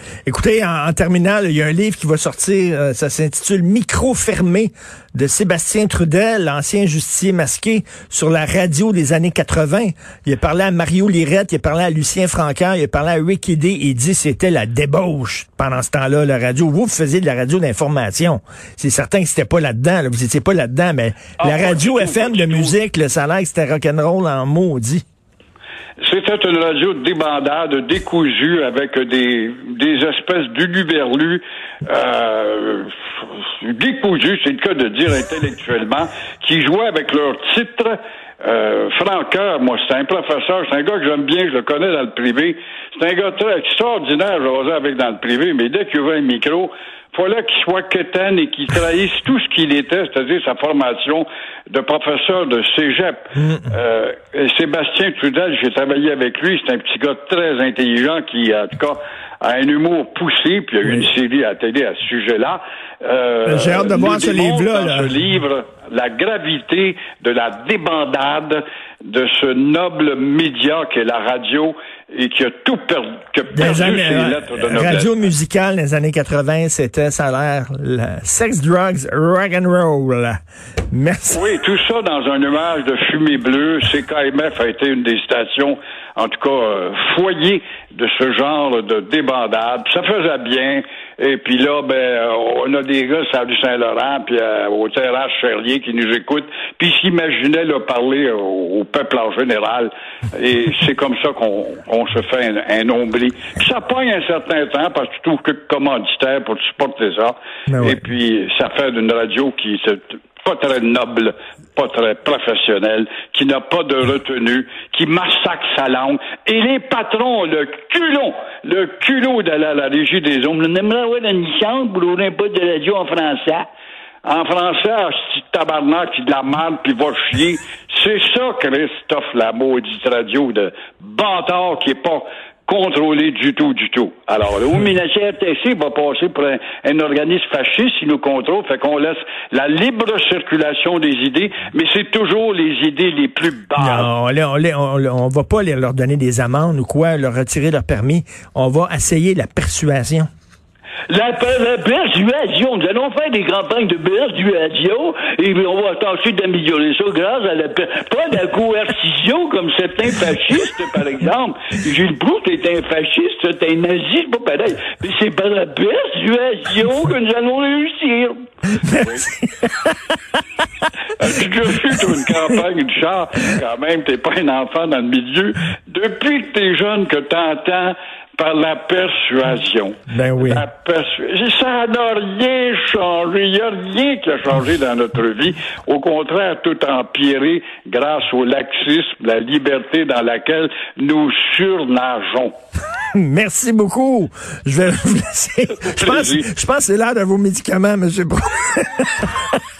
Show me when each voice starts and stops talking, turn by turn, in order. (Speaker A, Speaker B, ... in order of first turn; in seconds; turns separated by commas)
Speaker A: 0.2-25.0, Speaker B: 21.4-22.8, Speaker B: 26.0-75.2, Speaker A: 53.4-53.6, Speaker A: 63.5-65.1, Speaker A: 73.5-80.4, Speaker A: 80.9-81.4, Speaker B: 81.3-123.7, Speaker A: 107.7-108.0, Speaker B: 124.2-144.1, Speaker A: 143.8-150.3, Speaker B: 151.1-168.4, Speaker A: 168.8-169.9, Speaker B: 168.9-169.3, Speaker B: 171.2-192.5, Speaker A: 180.1-180.7, Speaker A: 193.1-199.6, Speaker B: 195.8-196.5